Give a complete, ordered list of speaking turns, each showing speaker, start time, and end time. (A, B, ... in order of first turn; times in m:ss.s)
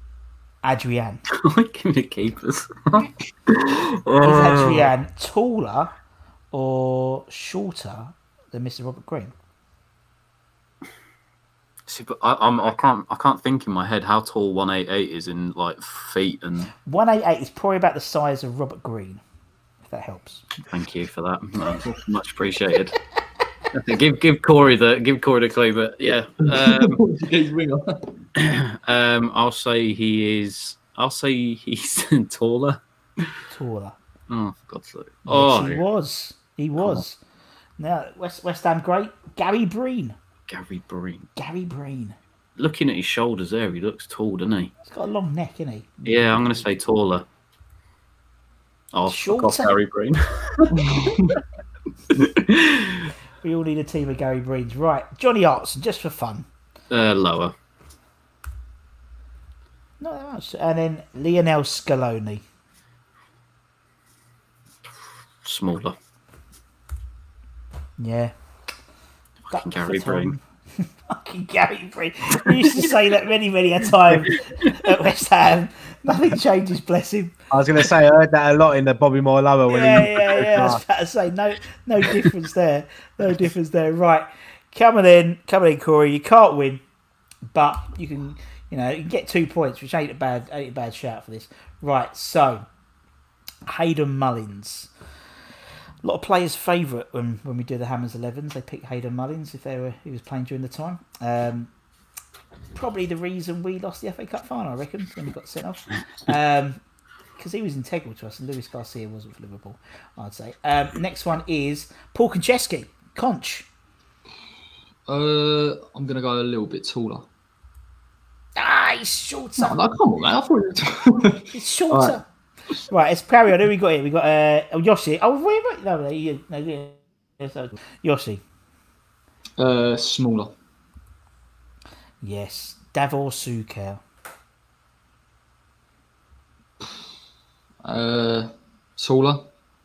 0:00.6-0:01.2 A
0:01.3-0:04.9 B
0:04.2-0:05.9 A
0:06.5-0:09.3 A
0:11.9-0:16.7 B
0:16.8-0:19.2 A
0:19.9-0:20.4 A
0:20.7-0:23.0 B
0:23.7-0:27.0 B
0:26.4-0:28.0 C
0:28.4-0:33.3 B
0:33.5-0:34.0 A
0:34.3-0:35.8 B
0:35.3-0:37.2 A
0:36.8-0:37.0 B
0:37.8-0:40.1 A
0:40.5-0:41.3 B
0:41.4-0:42.2 A
0:42.6-0:44.7 B
0:44.8-0:46.6 A
0:46.0-0:47.2 B
0:48.9-0:51.2 B
0:49.0-0:49.7 A
0:50.7-0:51.4 C
0:52.1-0:53.1 B
0:53.4-0:56.5 A
0:56.9-0:57.5 B
1:00.0-1:02.4 A
1:05.4-1:06.0 B
1:08.0-1:08.3 A
1:09.5-1:10.3 B
1:09.5-1:17.3 A
1:17.5-1:20.8 D
1:19.7-1:26.8 A
1:27.5-1:32.6 A
1:33.7-1:34.9 A
1:36.0-1:41.7 A
1:42.7-1:46.8 A
1:47.4-1:53.7 A
1:55.1-1:57.2 C
1:58.6-1:59.8 A
1:59.6-2:02.2 C
2:01.5-2:02.2 A
2:02.9-2:08.4 A
2:09.6-2:10.5 C
2:12.2-2:14.0 A
2:17.8-2:19.4 C